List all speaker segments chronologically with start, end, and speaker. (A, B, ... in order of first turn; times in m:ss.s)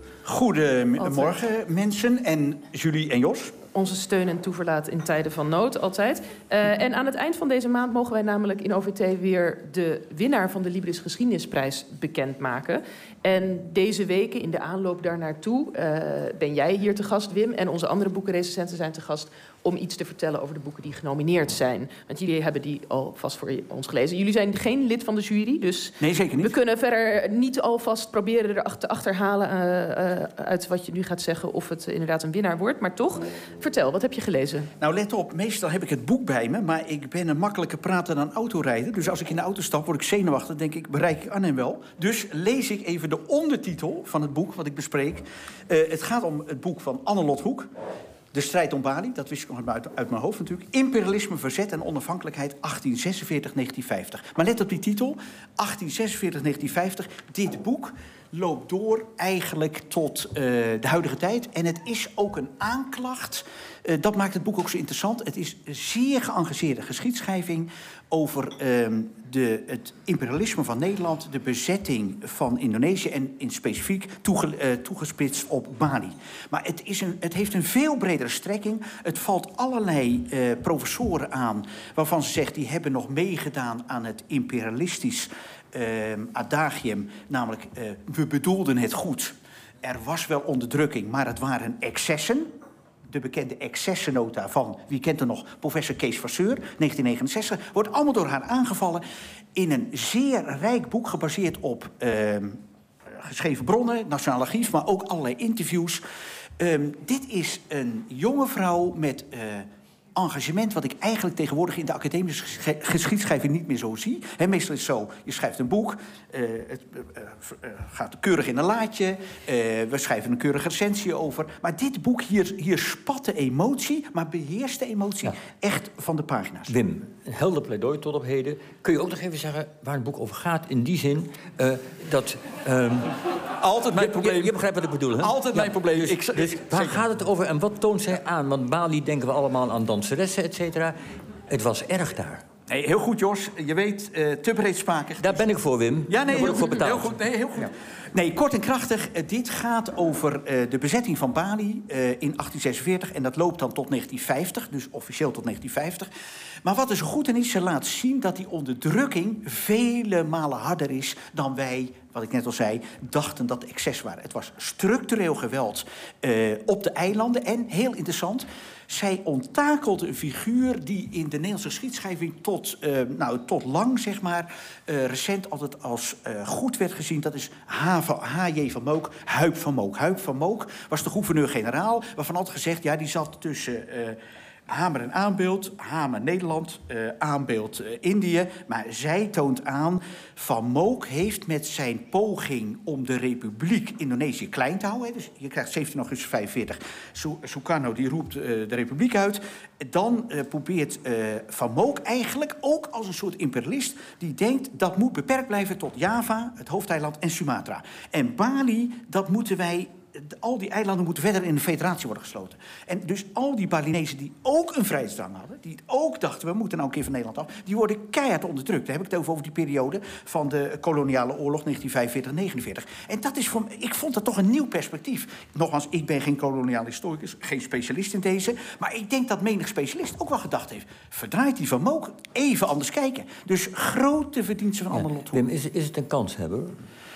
0:00.2-0:03.5 A
0:01.0-0:01.3 B
0:03.7-0:34.7 B
0:26.0-0:26.6 A
0:34.8-0:47.7 A
0:48.3-1:32.5 A
1:33.1-1:39.0 A
1:39.6-1:42.6 A
1:43.2-1:46.0 A
1:46.6-2:06.7 A
2:06.7-2:13.1 C
2:13.6-2:14.6 A
2:13.9-2:20.9 C
2:15.2-2:17.1 A
2:21.5-2:22.4 C
2:22.7-2:25.5 A
2:25.2-2:27.1 C
2:26.1-2:36.1 A
2:36.6-3:55.4 A
3:54.9-3:56.7 C